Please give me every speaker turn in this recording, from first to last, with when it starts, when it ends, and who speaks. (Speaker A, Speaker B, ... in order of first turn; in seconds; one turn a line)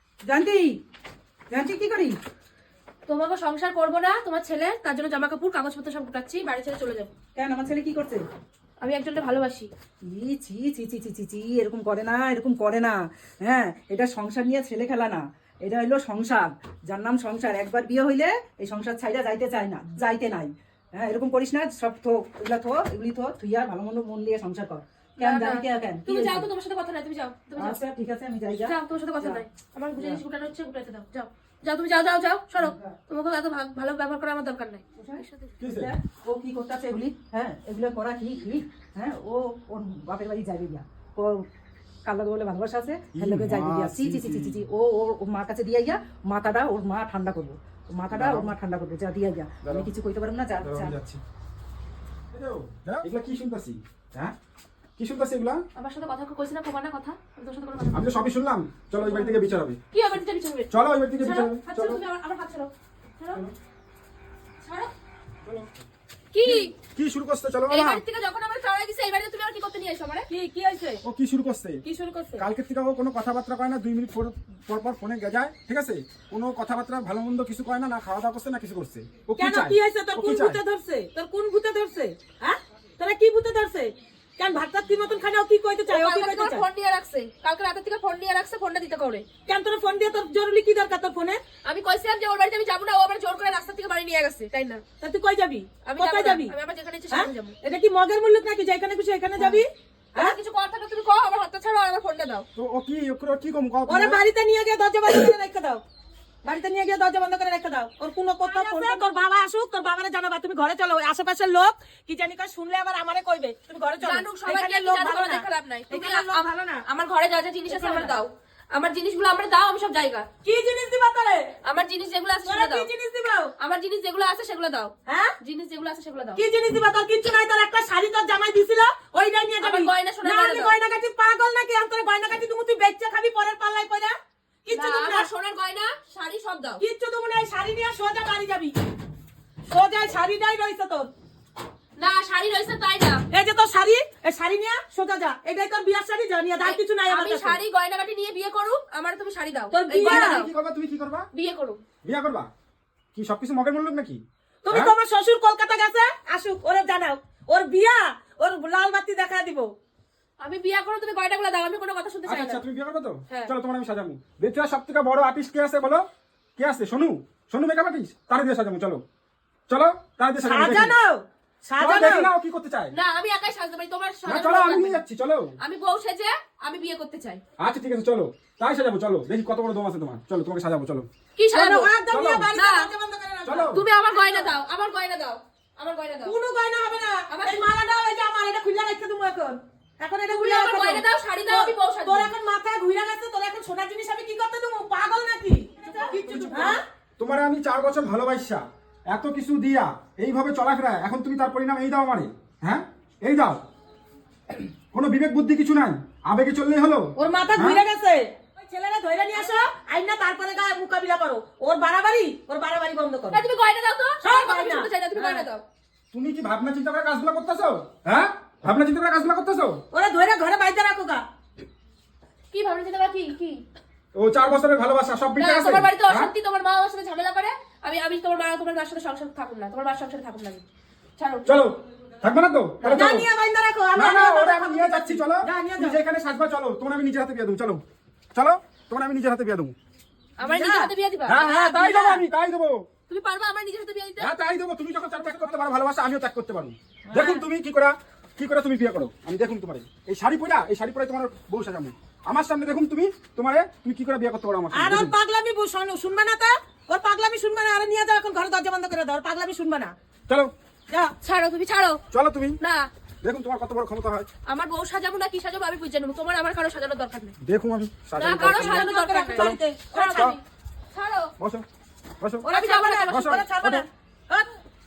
Speaker A: 0.2-0.8
Speaker A: 1.5-2.1
Speaker B: 3.1-7.1
Speaker A: 7.3-8.2
Speaker B: 8.8-9.7
Speaker A: 10.1-26.5
Speaker B: 25.2-27.8
Speaker A: 27.6-29.4
Speaker B: 28.6-35.6
Speaker A: 32.5-32.9
Speaker A: 35.0-41.4
Speaker C: 35.6-35.9
Speaker A: 42.0-50.9
Speaker C: 43.1-44.6
Speaker C: 48.1-48.5
Speaker C: 50.6-51.2
Speaker C: 52.3-54.3
Speaker C: 55.0-55.6
Speaker B: 55.8-58.1
Speaker C: 57.9-59.8
Speaker B: 59.0-63.4
Speaker C: 60.7-62.0
Speaker B: 64.6-64.9
Speaker C: 65.4-65.7
Speaker B: 66.3-66.7
Speaker C: 66.5-68.0
Speaker B: 67.7-70.3
Speaker D: 70.3-71.0
Speaker C: 71.0-71.8
Speaker D: 71.8-72.4
Speaker C: 72.4-80.6
Speaker D: 79.4-86.6
Speaker B: 85.9-89.2
Speaker D: 89.5-91.4
Speaker B: 91.7-94.8
Speaker D: 95.0-96.5
Speaker B: 95.8-97.5
Speaker D: 97.1-100.3
Speaker B: 99.4-99.6
Speaker B: 100.1-102.5
Speaker C: 102.5-104.2
Speaker D: 103.8-105.8
Speaker D: 106.4-116.8
Speaker B: 108.4-109.0
Speaker B: 114.0-120.3
Speaker D: 117.7-118.2
Speaker D: 120.4-121.6
Speaker B: 121.6-122.9
Speaker D: 122.4-123.5
Speaker B: 123.6-126.4
Speaker D: 125.1-125.4
Speaker D: 126.3-135.3
Speaker B: 129.6-130.7
Speaker B: 134.7-136.8
Speaker D: 136.8-138.7
Speaker D: 139.7-141.1
Speaker B: 142.0-143.2
Speaker D: 143.3-147.6
Speaker B: 146.6-150.5
Speaker D: 149.7-150.3
Speaker C: 149.9-151.3
Speaker B: 151.3-151.8
Speaker C: 152.0-152.5
Speaker C: 153.1-154.9
Speaker D: 154.6-159.7
Speaker B: 160.4-162.6
Speaker C: 162.2-169.0
Speaker C: 169.7-170.9
Speaker D: 170.4-172.3
Speaker C: 171.8-172.9
Speaker B: 172.9-175.0
Speaker C: 174.2-175.6
Speaker B: 175.6-177.4
Speaker C: 177.6-181.1
Speaker B: 181.4-181.9
Speaker D: 181.5-184.5
Speaker C: 182.1-182.5
Speaker B: 182.5-182.9
Speaker C: 183.4-183.8
Speaker B: 183.7-186.3
Speaker D: 186.2-196.8
Speaker B: 187.3-187.7
Speaker B: 190.3-192.3
Speaker C: 196.2-203.6
Speaker C: 204.9-207.8
Speaker D: 207.2-213.4
Speaker B: 213.3-215.6
Speaker D: 214.2-215.5
Speaker C: 216.1-219.8
Speaker D: 219.9-221.2
Speaker B: 222.5-223.6
Speaker C: 224.1-226.3
Speaker B: 225.4-230.6
Speaker B: 231.2-231.5
Speaker C: 231.4-233.3
Speaker D: 232.8-236.0
Speaker C: 233.9-237.8
Speaker C: 238.3-239.7
Speaker B: 240.4-242.0
Speaker D: 240.4-240.9
Speaker C: 241.2-242.9
Speaker D: 241.4-242.2
Speaker B: 243.1-244.3
Speaker C: 244.2-255.1
Speaker D: 247.1-247.4
Speaker D: 254.7-259.9
Speaker D: 260.9-261.1
Speaker B: 261.2-262.0
Speaker C: 262.1-262.6
Speaker B: 262.6-262.9
Speaker C: 263.2-264.3
Speaker B: 264.5-267.4
Speaker C: 267.4-269.5
Speaker B: 268.2-270.4
Speaker D: 268.4-270.4
Speaker B: 270.9-271.3
Speaker C: 271.4-271.6
Speaker C: 272.2-272.5
Speaker D: 272.4-274.5
Speaker B: 272.5-273.5
Speaker C: 273.1-273.9